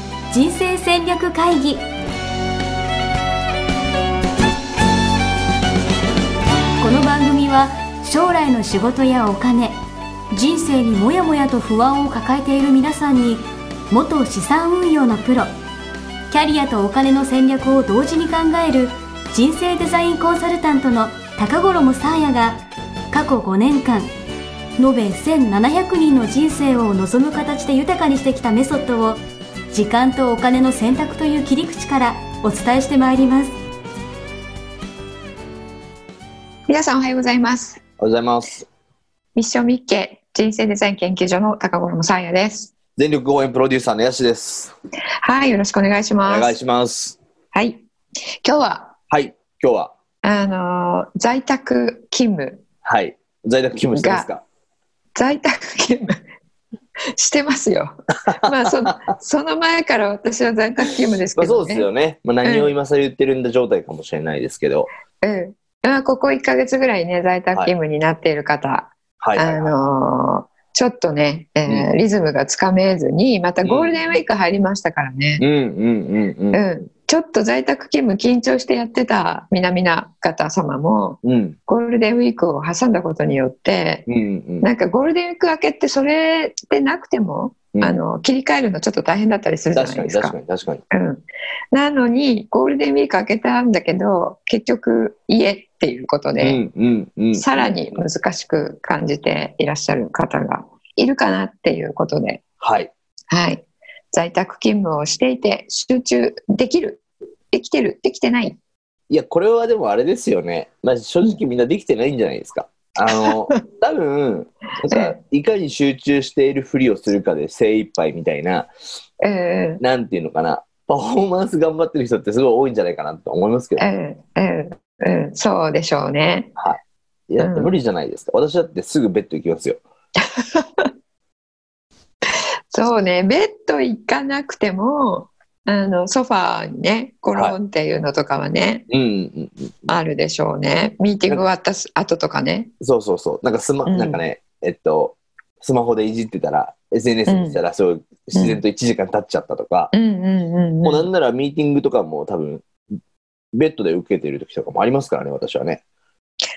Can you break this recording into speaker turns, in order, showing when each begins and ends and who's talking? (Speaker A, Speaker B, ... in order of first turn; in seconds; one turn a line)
Speaker A: 0.3-1.9
Speaker A: 6.8-9.8
Speaker A: 10.3-15.5
Speaker A: 16.3-24.1
Speaker A: 24.8-29.2
Speaker A: 29.7-33.5
Speaker B: 36.7-37.8
Speaker C: 38.0-38.7
Speaker B: 39.4-42.7
Speaker C: 43.0-44.7
Speaker B: 45.2-46.5
Speaker C: 46.2-47.2
Speaker B: 47.5-47.8
Speaker B: 48.4-49.0
Speaker C: 49.1-49.9
Speaker B: 50.2-52.6
Speaker C: 52.8-54.4
Speaker B: 53.9-54.3
Speaker B: 55.2-56.2
Speaker B: 57.2-61.9
Speaker C: 58.5-58.9
Speaker C: 61.4-64.9
Speaker B: 62.4-62.7
Speaker B: 65.2-75.4
Speaker C: 69.2-69.7
Speaker C: 73.6-74.1
Speaker C: 75.4-76.6
Speaker B: 76.5-84.1
Speaker C: 81.2-81.6
Speaker C: 84.1-84.7
Speaker B: 84.6-90.4
Speaker C: 89.7-90.8
Speaker B: 90.9-96.6
Speaker C: 96.4-97.8
Speaker B: 97.3-102.4
Speaker C: 102.6-102.9
Speaker B: 103.3-108.6
Speaker C: 109.1-118.7
Speaker B: 113.1-113.6
Speaker B: 114.9-115.2
Speaker B: 119.2-119.8
Speaker C: 119.8-123.8
Speaker B: 123.8-126.5
Speaker C: 126.5-129.8
Speaker B: 127.4-127.7
Speaker B: 130.3-130.9
Speaker B: 132.7-138.9
Speaker C: 138.9-139.9
Speaker B: 139.9-142.7
Speaker C: 142.8-149.9
Speaker B: 143.8-144.2
Speaker B: 147.3-147.6
Speaker B: 148.3-148.6
Speaker B: 149.9-151.1
Speaker C: 150.8-152.7
Speaker C: 153.5-155.8